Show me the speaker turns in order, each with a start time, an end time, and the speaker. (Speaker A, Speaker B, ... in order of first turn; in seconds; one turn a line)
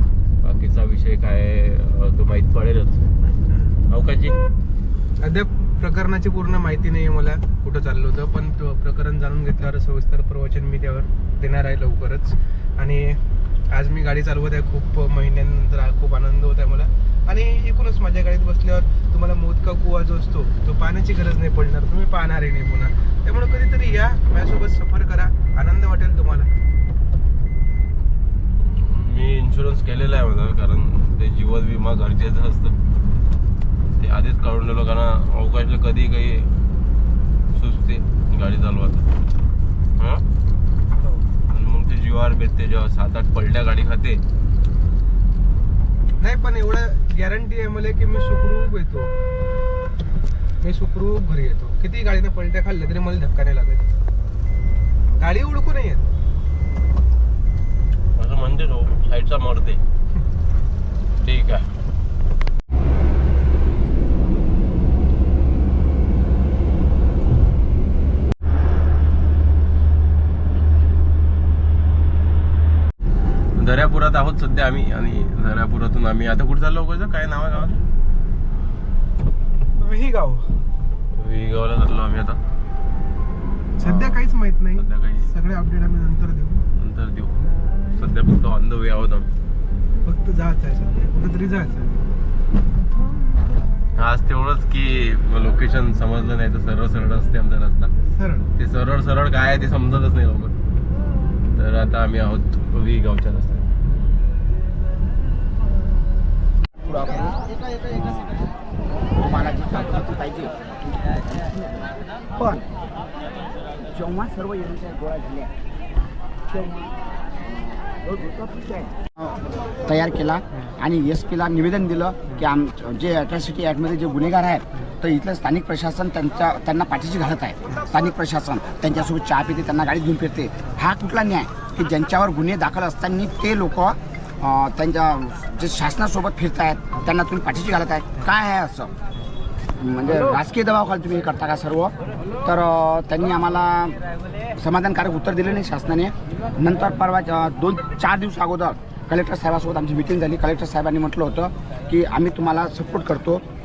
Speaker A: 0.4-3.0
Speaker B: 3.5-3.8
Speaker A: 3.9-4.4
Speaker B: 5.2-26.5
Speaker A: 28.6-32.8
Speaker A: 34.0-36.5
Speaker A: 37.5-39.1
Speaker A: 40.0-40.2
Speaker B: 41.0-41.3
Speaker A: 41.5-44.2
Speaker B: 46.2-49.1
Speaker B: 50.6-53.9
Speaker B: 55.1-56.1
Speaker A: 58.2-59.8
Speaker A: 61.2-61.6
Speaker A: 73.6-77.8
Speaker B: 79.8-80.5
Speaker A: 81.2-82.4
Speaker B: 83.8-86.7
Speaker A: 83.8-84.2
Speaker A: 84.8-85.3
Speaker A: 86.8-87.3
Speaker A: 88.0-89.3
Speaker B: 90.0-92.0
Speaker A: 94.0-97.9
Speaker B: 98.1-98.5
Speaker A: 98.6-100.5
Speaker A: 101.5-103.7
Speaker C: 106.8-108.4
Speaker C: 109.2-110.5
Speaker C: 111.3-111.8
Speaker C: 112.3-112.7
Speaker C: 113.9-115.5
Speaker C: 116.5-116.9
Speaker C: 117.5-138.9
Speaker C: 139.8-144.0
Speaker C: 144.6-153.4